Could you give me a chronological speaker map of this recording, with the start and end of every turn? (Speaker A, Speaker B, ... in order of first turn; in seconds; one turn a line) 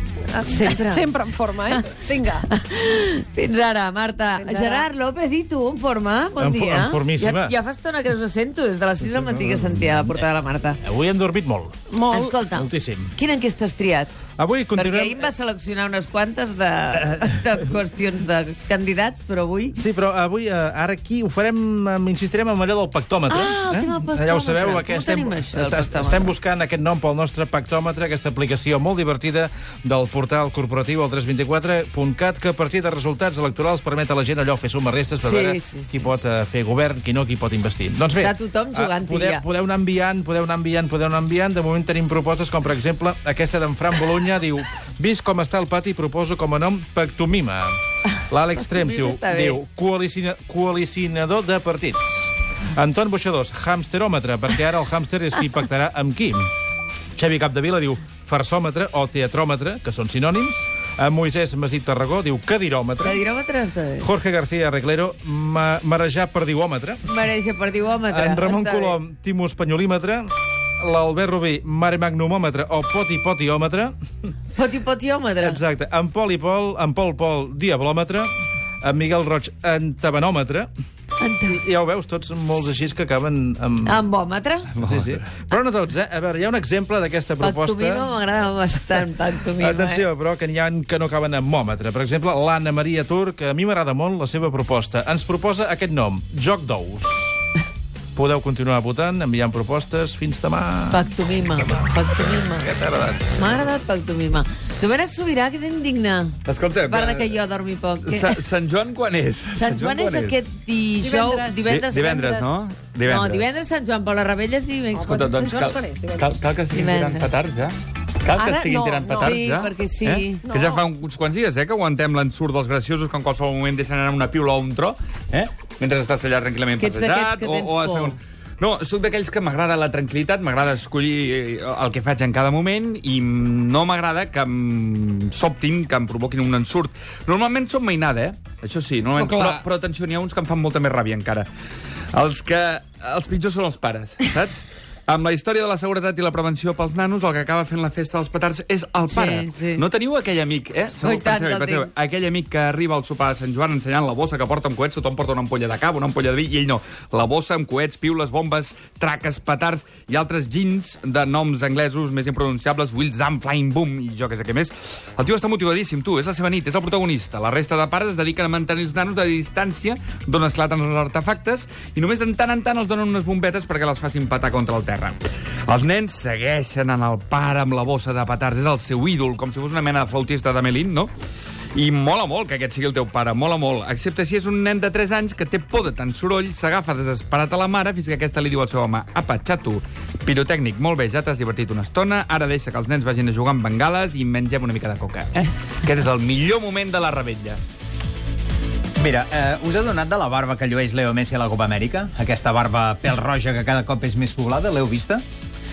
Speaker A: 0.3-2.5
Speaker B: 0.4-1.1
Speaker B: 1.7-10.8
Speaker A: 4.4-4.9
Speaker C: 6.4-7.5
Speaker C: 9.0-10.1
Speaker C: 10.8-11.8
Speaker A: 11.9-12.4
Speaker B: 12.1-14.1
Speaker C: 12.5-13.1
Speaker C: 14.4-15.3
Speaker B: 14.7-19.8
Speaker C: 19.7-56.5
Speaker B: 23.3-26.3
Speaker B: 35.2-36.0
Speaker B: 38.1-39.4
Speaker B: 48.7-49.6
Speaker C: 57.1-63.2
Speaker B: 63.0-64.1
Speaker C: 64.0-67.0
Speaker B: 67.0-69.0
Speaker C: 68.1-70.3
Speaker C: 70.8-73.9
Speaker B: 74.5-75.6
Speaker C: 75.4-78.3
Speaker C: 78.8-80.7
Speaker B: 81.2-81.6
Speaker C: 81.5-84.0
Speaker B: 83.8-84.7
Speaker D: 84.7-85.2
Speaker C: 84.8-88.1
Speaker B: 87.4-90.0
Speaker C: 89.6-97.3
Speaker C: 98.1-101.0
Speaker B: 100.9-102.7
Speaker D: 102.6-103.6
Speaker B: 103.3-106.4
Speaker D: 106.5-107.4
Speaker B: 106.9-108.4
Speaker D: 108.0-110.4
Speaker B: 109.5-112.2
Speaker A: 111.0-112.6
Speaker D: 111.7-113.5
Speaker B: 113.0-115.3
Speaker A: 114.9-116.5
Speaker D: 115.0-141.5
Speaker B: 116.7-117.3
Speaker A: 118.3-119.5
Speaker B: 119.1-120.5
Speaker A: 120.4-120.8
Speaker B: 126.8-128.2
Speaker D: 142.1-181.1
Speaker B: 149.1-149.8
Speaker B: 151.0-151.9
Speaker D: 181.7-197.6
Speaker E: 199.0-205.2